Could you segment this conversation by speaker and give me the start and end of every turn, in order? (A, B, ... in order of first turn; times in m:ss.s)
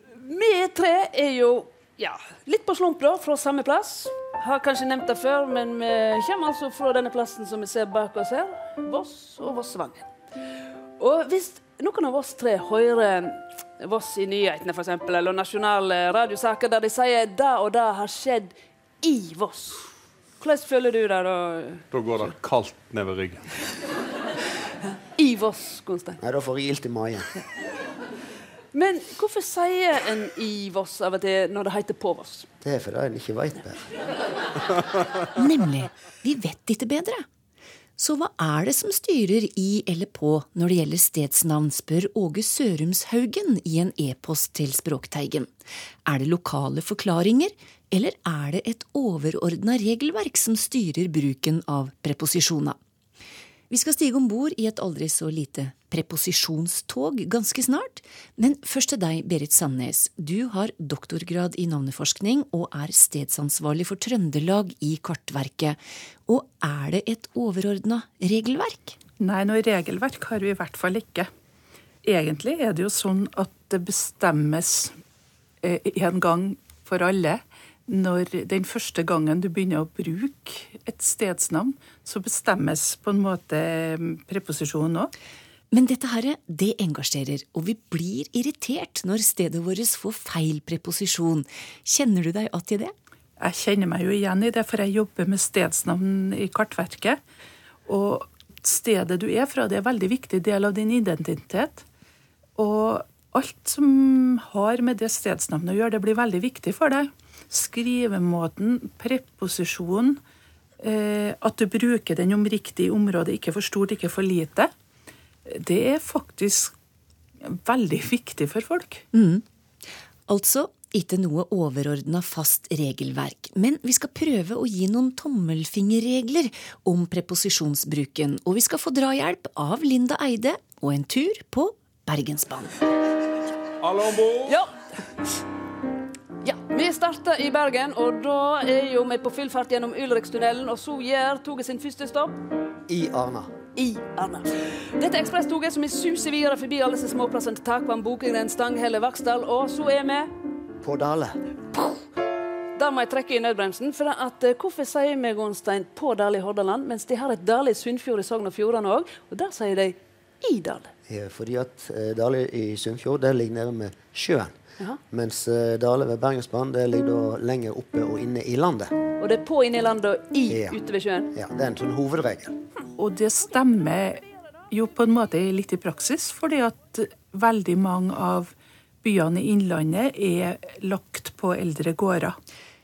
0:00.2-0:10.1 A
0:11.0-0:19.9 A
0:20.4-0:21.9 A
0:21.9-0:23.5 B
0:25.2-0:26.2 A
0:26.2-0:27.3 C
0:28.7-0:32.5 A
0:32.6-0:33.8 C
0:35.4-0:37.2 D
0:38.0-0:45.5 D
0:46.1-0:52.8 D
0:53.7-1:09.0 D
1:09.2-1:11.3 E
1:12.0-1:15.0 E
1:15.6-1:25.1 E
1:25.7-1:32.9 D
1:33.4-1:37.2 E
1:37.9-1:41.8 E
1:42.6-1:50.2 E
1:50.8-1:54.7 E
1:55.5-1:56.7 E
1:57.5-1:59.0 E
1:59.1-1:59.4 D
2:00.3-2:12.8 D
2:13.8-2:14.4 B
2:14.5-2:14.7 A
2:16.4-2:22.4 A
2:22.9-2:23.5 C
2:23.8-2:30.3 A
2:30.8-2:31.4 C
2:32.8-2:40.9 A
2:41.1-2:49.0 C
2:49.2-2:51.3 A
2:50.5-2:50.8 C
2:51.3-2:52.5 C
2:53.0-3:02.4 E